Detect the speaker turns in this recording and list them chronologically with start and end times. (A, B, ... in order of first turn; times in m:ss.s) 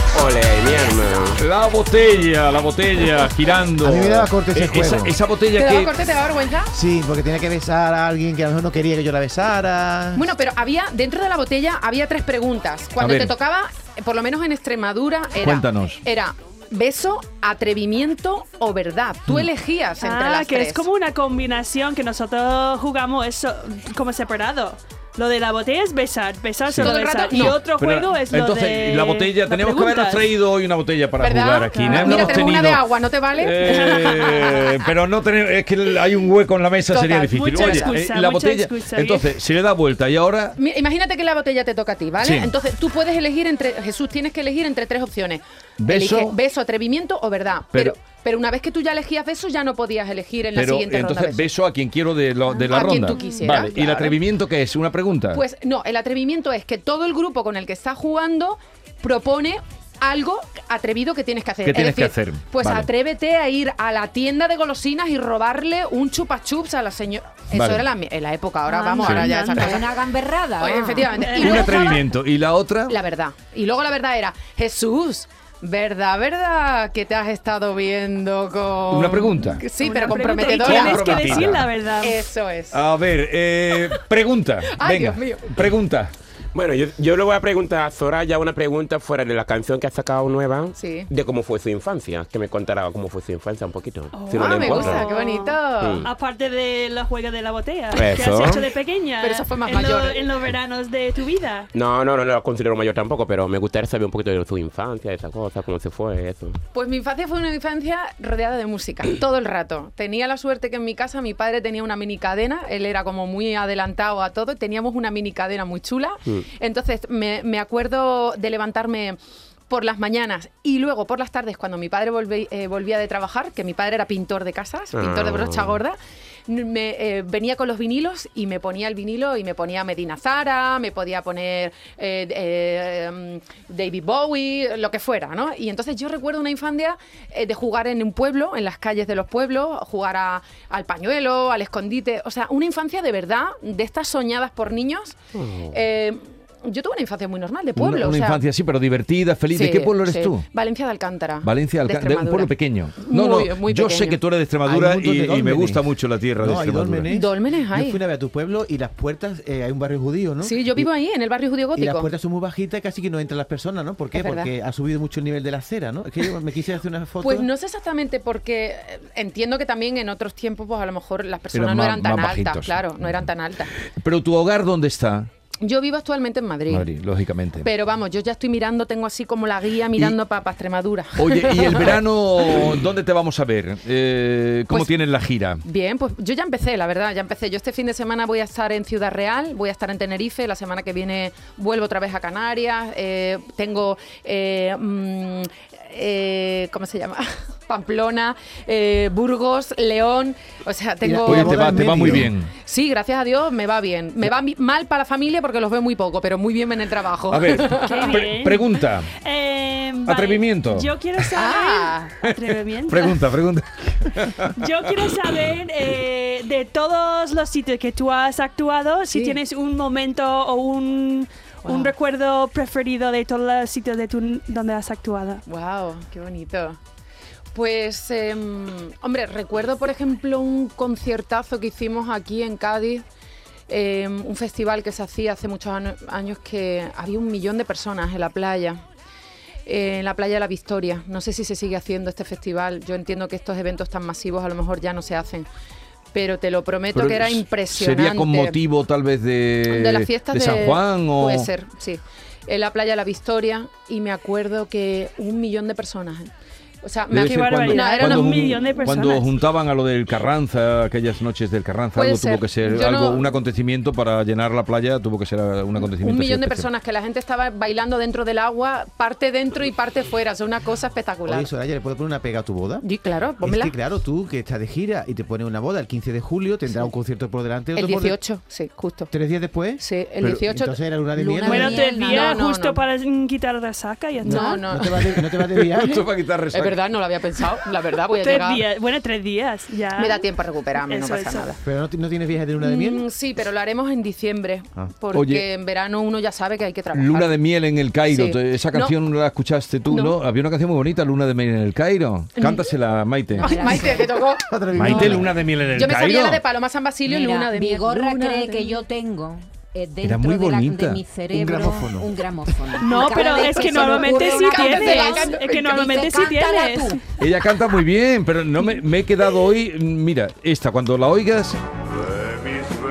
0:00.1-0:01.4 A
0:01.4-0:05.9 B
0:03.8-0:05.2 C
0:05.6-0:06.7 D
0:06.7-0:10.3 C
0:10.2-0:20.9 D
0:13.0-0:13.3 B
0:15.4-0:16.0 B
0:20.0-0:30.4 E
0:26.7-0:40.6 B
0:26.8-0:27.6 D
0:31.2-0:34.7 D
0:31.8-0:32.4 E
0:33.6-0:34.5 E
0:37.0-0:37.9 D
0:37.0-0:39.4 E
0:40.6-0:51.5 D
0:42.2-0:42.5 B
0:45.8-0:46.4 B
0:50.6-0:55.4 B
0:52.7-0:54.2 D
0:55.3-1:10.0 D
1:01.6-1:02.9 B
1:07.5-1:07.8 B
1:08.7-1:09.8 E
1:09.0-1:09.3 B
1:09.7-1:11.0 F
1:10.6-1:12.0 D
1:11.1-1:12.0 E
1:11.3-1:13.0 B
1:12.9-1:22.8 D
1:18.9-1:19.6 B
1:19.8-1:22.2 E
1:20.5-1:21.7 B
1:22.7-1:26.1 B
1:24.7-1:25.6 D
1:26.5-1:35.0 A
1:30.8-1:31.1 D
1:34.1-1:41.7 E
1:34.4-1:36.1 D
1:37.9-1:38.7 A
1:39.2-1:40.3 D
1:41.7-1:46.6 A
1:46.7-1:59.2 D
1:59.7-2:06.0 D
2:04.9-2:05.8 A
2:06.5-2:25.2 D
2:25.4-2:25.7 A
2:25.7-2:28.4 D
2:27.8-2:30.4 B
2:29.5-2:34.2 D
2:31.4-2:37.1 B
2:34.6-2:40.9 C
2:37.1-2:38.0 D
2:40.4-2:42.1 D
2:41.8-2:47.5 C
2:44.1-2:44.5 D
2:47.2-2:53.7 D
2:51.5-2:52.8 B
2:54.0-2:55.3 B
2:55.6-2:56.9 D
2:56.7-2:57.7 B
2:57.6-3:02.0 D
3:01.2-3:05.6 B
3:04.7-3:05.0 D
3:05.6-3:28.2 D
3:21.0-3:22.3 C
3:21.3-3:22.5 B
3:27.3-3:29.1 B
3:27.9-3:33.3 E
3:30.0-3:30.9 B
3:31.3-3:32.1 D
3:32.9-3:34.5 B
3:34.6-3:45.4 E
3:39.1-3:39.4 D
3:41.6-3:41.9 D
3:45.5-3:46.8 D
3:47.5-3:53.0 D
3:53.7-3:58.8 D
3:59.6-4:05.5 D
4:06.1-4:08.6 D
4:06.9-4:11.5 B
4:09.7-4:18.4 D
4:17.1-4:26.7 B
4:17.1-4:19.4 E
4:22.0-4:23.2 D
4:25.8-4:31.5 D
4:31.3-4:32.9 C
4:32.8-4:33.7 D
4:33.4-4:38.2 C
4:37.8-4:39.1 D
4:39.1-4:41.9 C
4:39.8-4:40.8 D
4:41.2-4:42.4 F
4:41.4-4:44.7 E
4:42.0-4:42.8 D
4:44.2-4:46.0 C
4:44.2-4:45.3 D
4:45.6-4:46.8 B
4:46.5-4:48.7 D
4:48.1-4:51.5 E
4:50.0-4:51.6 D
4:51.6-4:53.1 C
4:52.6-4:57.5 D
4:55.1-4:55.4 B
4:56.9-5:03.7 B
4:58.0-4:59.0 D
4:59.9-5:00.2 D
5:02.4-5:02.6 D
5:03.4-5:04.0 F
5:03.4-5:08.8 D
5:04.5-5:05.4 C
5:04.8-5:06.4 B
5:07.1-5:15.3 F
5:10.0-5:11.0 B
5:11.3-5:12.8 C
5:12.7-5:17.0 E
5:13.1-5:16.4 D
5:15.9-5:17.0 F
5:17.2-5:21.6 B